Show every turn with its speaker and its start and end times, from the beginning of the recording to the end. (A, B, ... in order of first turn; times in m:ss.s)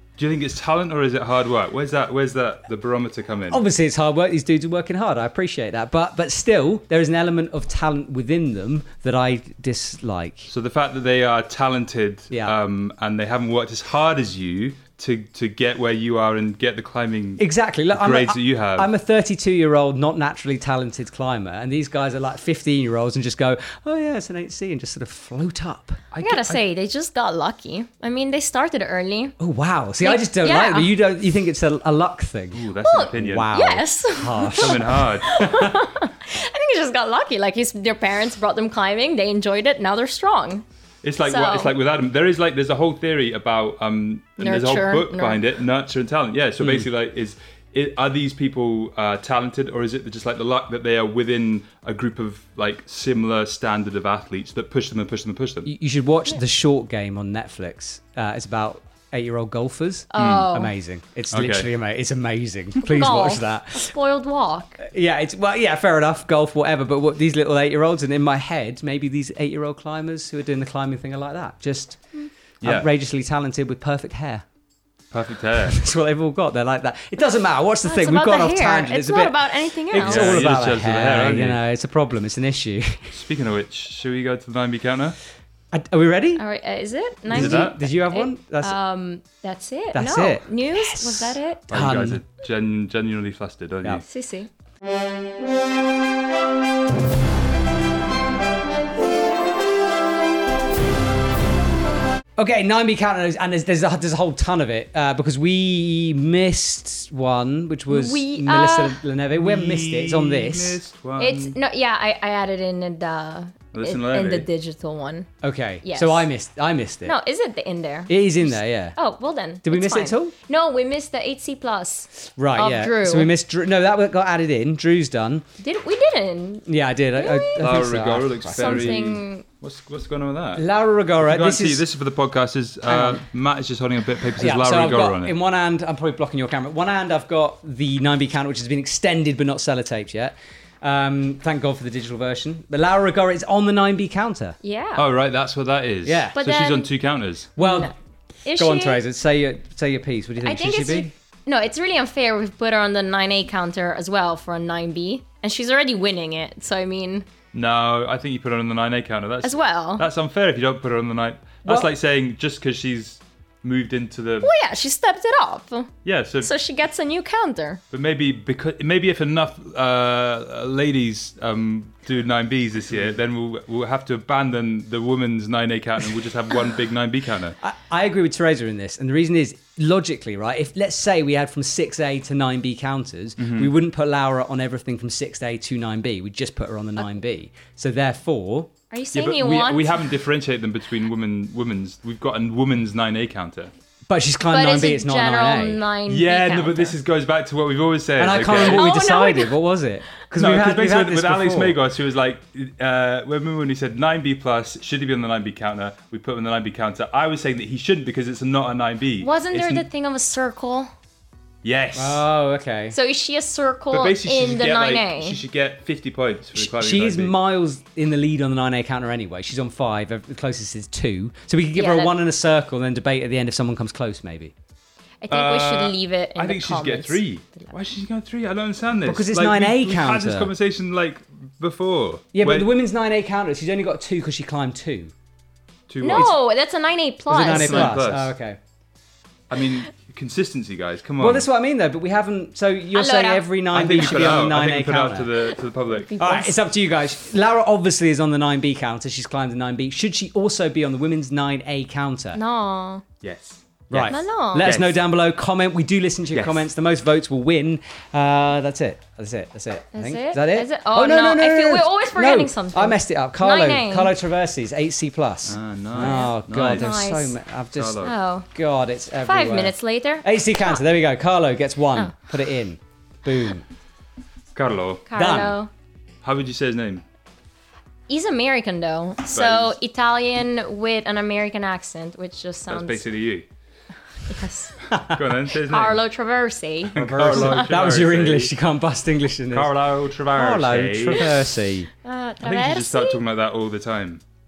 0:00.2-0:03.6 A
0:03.5-0:10.5 B
0:10.5-0:18.9 A
0:17.4-0:26.2 B
0:26.1-0:26.5 A
0:26.2-0:29.3 C
0:29.4-0:35.8 B
0:30.0-0:30.9 C
0:32.5-0:33.5 A
0:32.8-0:40.6 C
0:34.4-0:35.4 A
0:41.0-0:55.7 A
0:41.2-0:41.7 C
0:44.4-0:45.4 C
0:46.6-0:46.8 B
0:55.6-1:03.9 B
1:00.1-1:00.7 C
1:00.2-1:00.5 A
1:01.3-1:01.7 A
1:02.8-1:04.8 C
1:04.8-1:12.0 B
1:12.6-1:12.9 A
1:12.6-1:14.4 B
1:15.1-1:15.8 A
1:15.6-1:23.1 B
1:17.8-1:20.4 C
1:20.0-1:21.6 A
1:23.1-1:25.2 A
1:25.7-1:26.4 B
1:26.4-1:31.6 C
1:27.3-1:28.8 B
1:27.3-1:27.8 A
1:29.9-1:32.2 B
1:31.7-1:34.0 A
1:34.0-1:34.5 C
1:42.4-1:50.8 B
1:47.9-1:49.0 C
1:49.3-1:51.5 A
1:51.2-1:55.3 C
1:53.7-1:54.5 A
1:55.4-1:57.2 B
1:55.8-1:56.3 C
1:57.0-2:03.3 C
1:58.1-1:59.0 B
1:59.6-2:00.3 B
2:02.4-2:05.4 B
2:05.6-2:07.6 C
2:06.7-2:09.0 B
2:07.6-2:10.6 A
2:08.5-2:09.4 C
2:10.6-2:11.8 B
2:11.2-2:15.3 A
2:12.8-2:13.2 B
2:14.4-2:24.6 B
2:24.6-2:25.0 C
2:25.0-2:27.6 A
2:26.0-2:26.3 B
2:26.3-2:26.9 C
2:27.6-2:27.9 B
2:27.6-2:27.9 C
2:28.4-2:29.0 C
2:28.6-2:31.1 B
2:30.4-2:37.2 C
2:37.5-2:44.5 A
2:39.4-2:40.0 C
2:41.6-2:41.9 B
2:44.4-2:47.8 C
2:46.0-2:46.5 A
2:47.9-2:57.6 A
2:57.6-3:08.7 B
3:03.4-3:03.7 A
3:08.9-3:10.0 C
3:09.1-3:13.7 A
3:14.1-3:15.8 B
3:14.5-3:17.0 C
3:16.1-3:18.9 A
3:18.2-3:21.8 B
3:18.5-3:19.5 C
3:20.4-3:29.8 A
3:29.2-3:30.9 C
3:31.6-3:32.2 A
3:31.9-3:33.0 B
3:32.9-3:35.4 C
3:33.9-3:37.3 A
3:36.6-3:44.5 B
3:41.7-3:42.2 C
3:45.2-3:47.7 C
3:45.3-3:52.7 A
3:49.0-3:50.5 B
3:52.3-3:55.1 B
3:55.9-3:56.4 A
3:56.0-3:58.0 C
3:57.3-3:58.6 B
3:57.4-3:58.3 A
3:59.5-4:01.5 A
4:01.2-4:05.4 B
4:02.9-4:04.3 C
4:03.7-4:06.2 A
4:05.9-4:06.6 C
4:06.2-4:12.4 B
4:12.3-4:13.0 C
4:13.2-4:15.0 A
4:13.9-4:33.6 B
4:14.1-4:14.7 C
4:16.3-4:16.6 A
4:19.9-4:24.1 C
4:25.5-4:27.0 A
4:26.0-4:27.4 C
4:27.8-4:28.1 A
4:28.0-4:28.5 C
4:29.2-4:30.8 C
4:34.5-4:35.4 A
4:35.1-4:35.7 C
4:35.2-4:35.6 B
4:36.2-4:37.0 A
4:38.1-4:43.0 C
4:39.3-4:39.8 A
4:42.7-4:43.5 A
4:44.2-4:44.7 C
4:44.9-4:45.2 B
4:45.1-4:46.0 A
4:45.6-4:47.7 C
4:46.9-4:48.5 A
4:46.9-4:49.7 B
4:49.5-4:51.4 A
4:50.3-4:51.9 B
4:52.0-4:53.2 C
4:52.4-4:54.2 A